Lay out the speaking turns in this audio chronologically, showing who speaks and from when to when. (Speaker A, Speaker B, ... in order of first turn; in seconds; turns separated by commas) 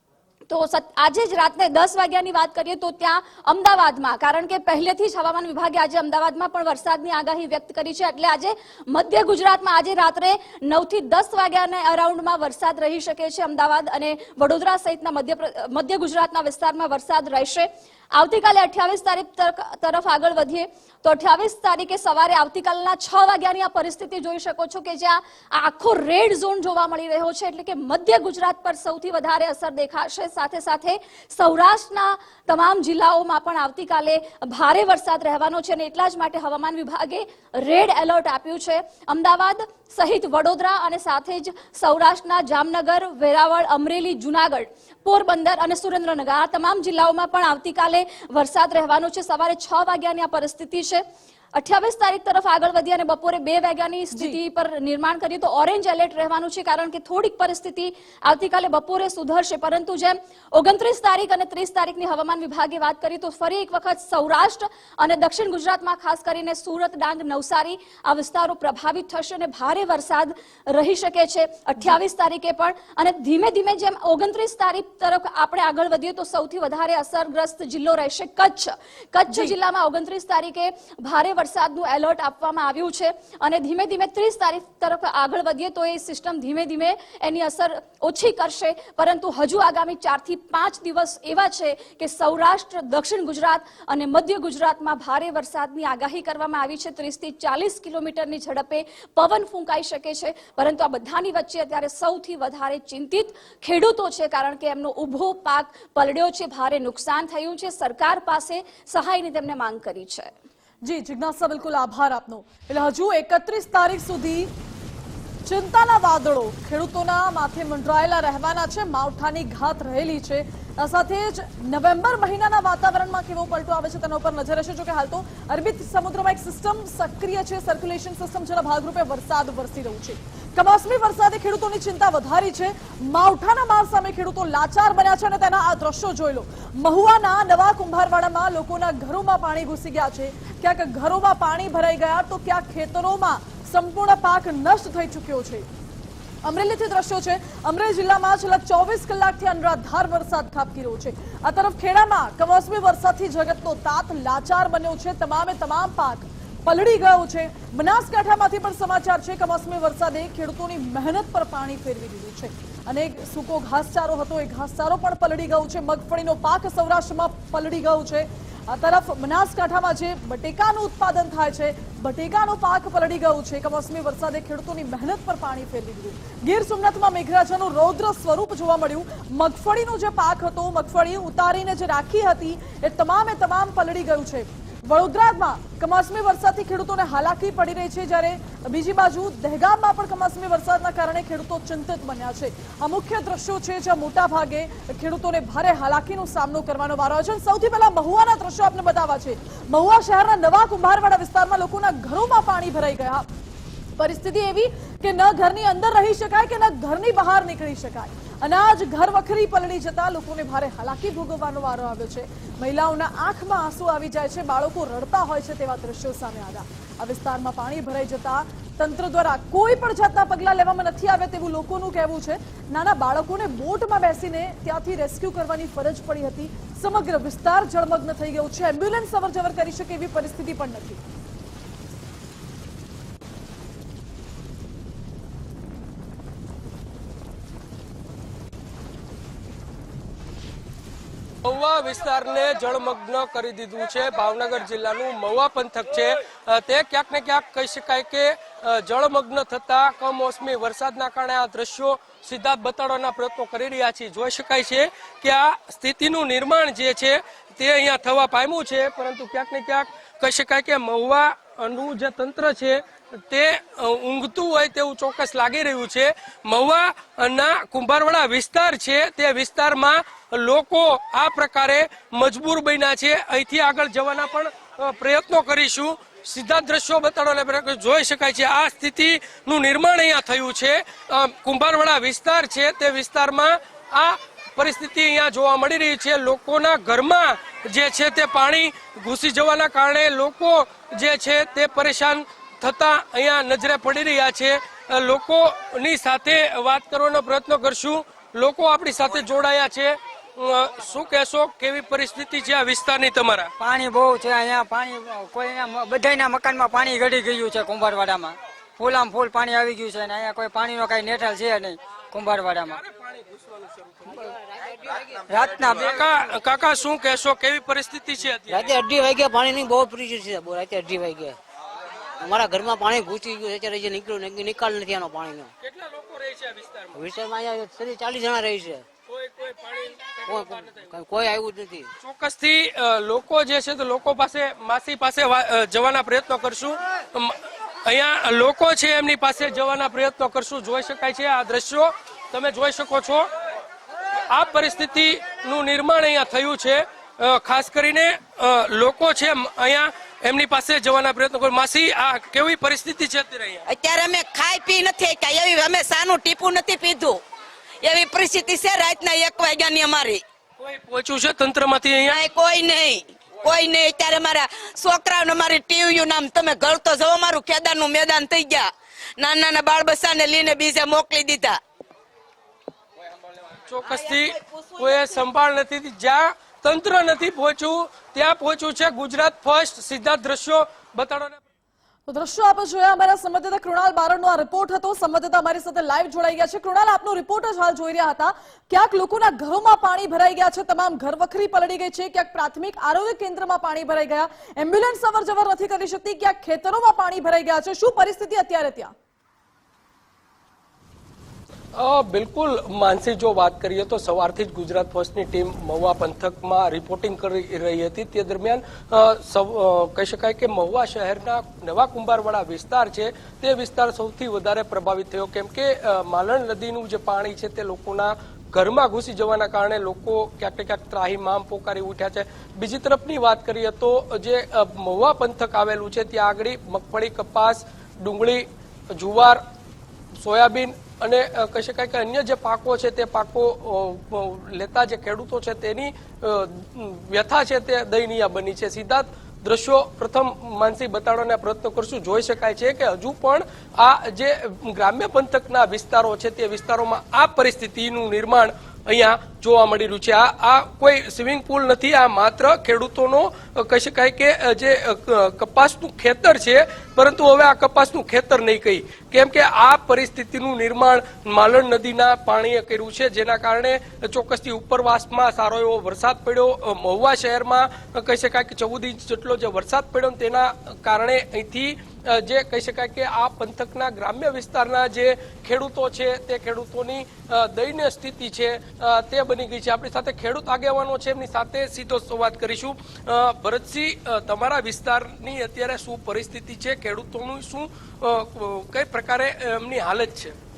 Speaker A: 0.5-51.0, Speaker A: 51.5-110.3, Speaker B: 54.1-54.4, Speaker B: 79.3-79.5, Speaker B: 110.8-114.5, Speaker B: 115.5-145.7, Speaker B: 146.4-203.3, Speaker B: 204.0-231.0, Speaker C: 241.4-303.5, Speaker D: 303.6-312.8, Speaker E: 303.6-311.6, Speaker E: 312.2-312.7, Speaker C: 312.8-313.9, Speaker D: 315.3-315.9, Speaker E: 315.6-315.8, Speaker C: 315.8-318.7, Speaker F: 318.5-321.4, Speaker F: 322.2-325.5, Speaker C: 325.6-327.0, Speaker F: 326.9-328.9, Speaker C: 329.1-330.8, Speaker F: 330.3-331.9, Speaker C: 332.0-343.3, Speaker C: 344.3-353.6, Speaker E: 353.7-357.2, Speaker E: 357.8-360.2, Speaker C: 360.6-362.2, Speaker E: 362.1-371.6, Speaker C: 373.6-381.4, Speaker B: 382.1-398.9, Speaker C: 401.8-429.4, Speaker C: 430.2-490.4